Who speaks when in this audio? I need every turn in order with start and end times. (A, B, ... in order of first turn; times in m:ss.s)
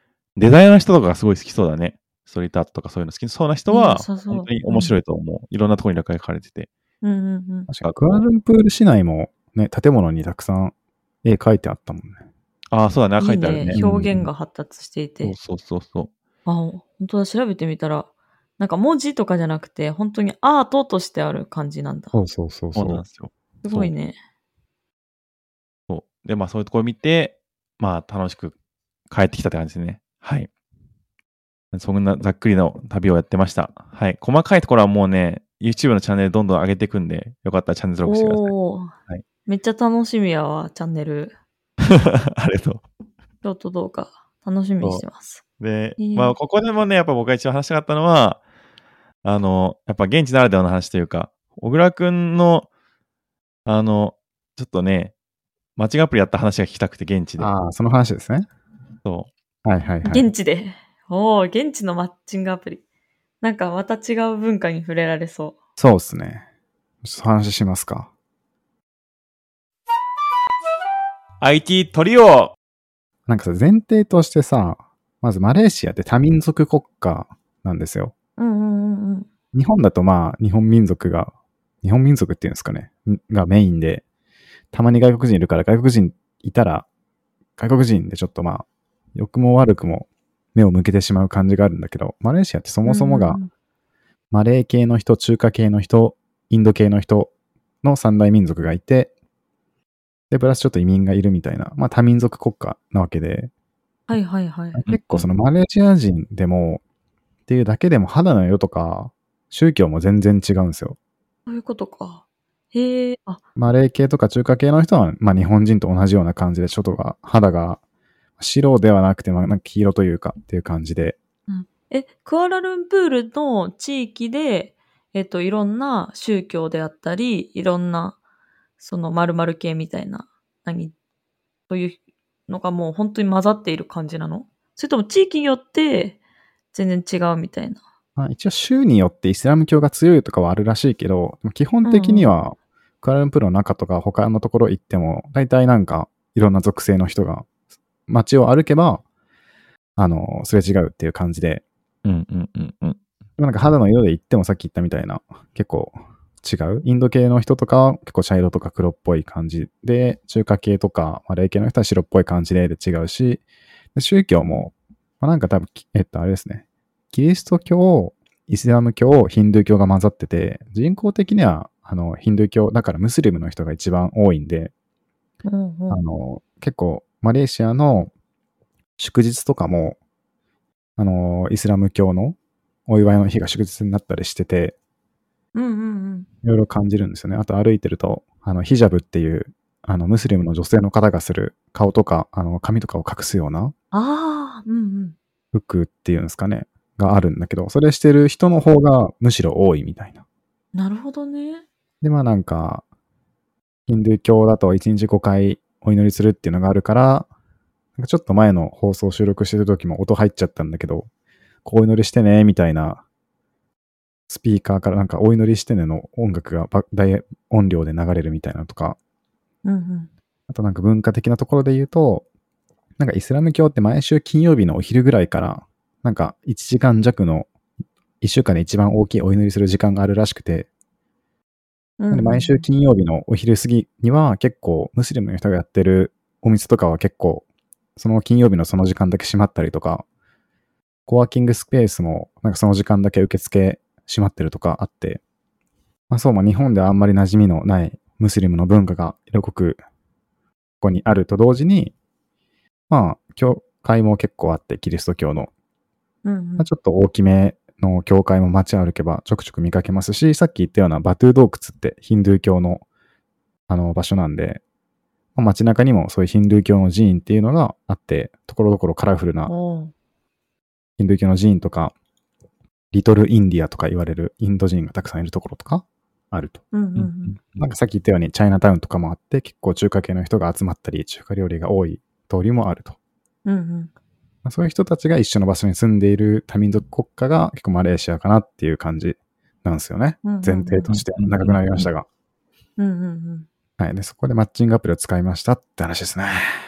0:00.4-0:06.7 A
0:03.7-0:05.0 B
0:07.0-0:07.7 B
0:07.7-0:12.2 C
0:12.7-0:13.8 A
0:13.2-0:15.4 B
0:13.7-0:14.3 C
0:15.2-0:16.1 A
0:16.5-0:18.1 B
0:18.6-0:22.1 B
0:22.1-0:23.0 C
0:22.8-0:23.9 A
0:23.6-0:24.2 B
0:25.9-0:28.5 A
0:29.1-0:30.5 A
0:31.7-0:38.5 A
0:38.0-0:38.9 B
0:39.5-0:41.3 B
0:41.9-0:42.8 A
0:43.4-0:45.4 B
0:45.6-0:48.4 A
0:46.0-0:46.3 B
0:49.2-0:52.7 A
0:53.7-0:55.1 A
0:55.8-0:57.5 A
0:57.4-0:58.5 C
0:59.0-0:59.3 A
0:59.6-1:00.3 C
1:00.0-1:02.8 B
1:03.4-1:05.6 B
1:05.8-1:06.4 C
1:07.0-1:08.1 C
1:11.4-1:12.6 A
1:13.3-1:18.1 C
1:18.4-1:19.3 B
1:19.5-1:24.0 C
1:24.7-1:26.9 C
1:27.6-1:33.4 C
1:32.8-1:33.5 B
1:34.3-1:37.3 C
1:37.8-1:39.1 C
1:40.3-1:43.5 C
1:44.1-1:44.8 B
1:44.8-1:46.8 C
1:44.9-1:45.3 A
1:47.5-1:51.0 C
1:51.5-1:53.4 B
1:53.6-1:57.8 C
1:58.4-2:01.2 C
2:01.5-2:08.2 B
2:08.8-2:10.9 B
2:11.7-2:16.2 B
2:16.7-2:17.8 B
2:18.2-2:27.5 C
2:21.8-2:22.3 B
2:28.1-2:29.0 C
2:30.0-2:31.6 C
2:32.0-2:33.0 A
2:33.4-2:43.4 C
2:44.0-2:54.7 C
2:55.4-2:56.0 B
2:55.9-2:58.1 C
2:59.0-3:00.0 C
3:01.0-3:04.8 C
3:05.5-3:06.3 B
3:06.4-3:13.7 C
3:13.9-3:15.2 B
3:15.5-3:20.2 C
3:20.8-3:21.6 B
3:22.0-3:22.8 C
3:23.9-3:27.3 C
3:28.0-3:31.1 C
3:31.6-3:33.0 C
3:34.3-3:39.0 C
3:39.6-3:40.1 B
3:40.5-3:42.3 C
3:43.0-3:47.5 C
3:48.2-3:50.7 C
3:52.0-3:52.6 B
3:52.1-3:57.4 C
3:58.0-4:00.0 C
4:01.1-4:05.2 C
4:06.1-4:09.8 C
4:10.8-4:11.9 C
4:12.9-4:15.5 C
4:16.2-4:16.7 B
4:16.6-4:22.8 C
4:23.7-4:24.6 C
4:25.4-4:29.5 C
4:29.5-4:29.9 B
4:31.0-4:31.9 C
4:32.9-4:36.6 C
4:36.7-4:37.4 B
4:37.0-4:37.6 A
4:37.6-4:43.0 C
4:43.4-4:43.9 B
4:44.4-4:52.1 C
4:50.2-4:50.9 B
4:50.9-4:51.9 A
4:52.8-4:53.5 B
4:53.8-4:56.5 C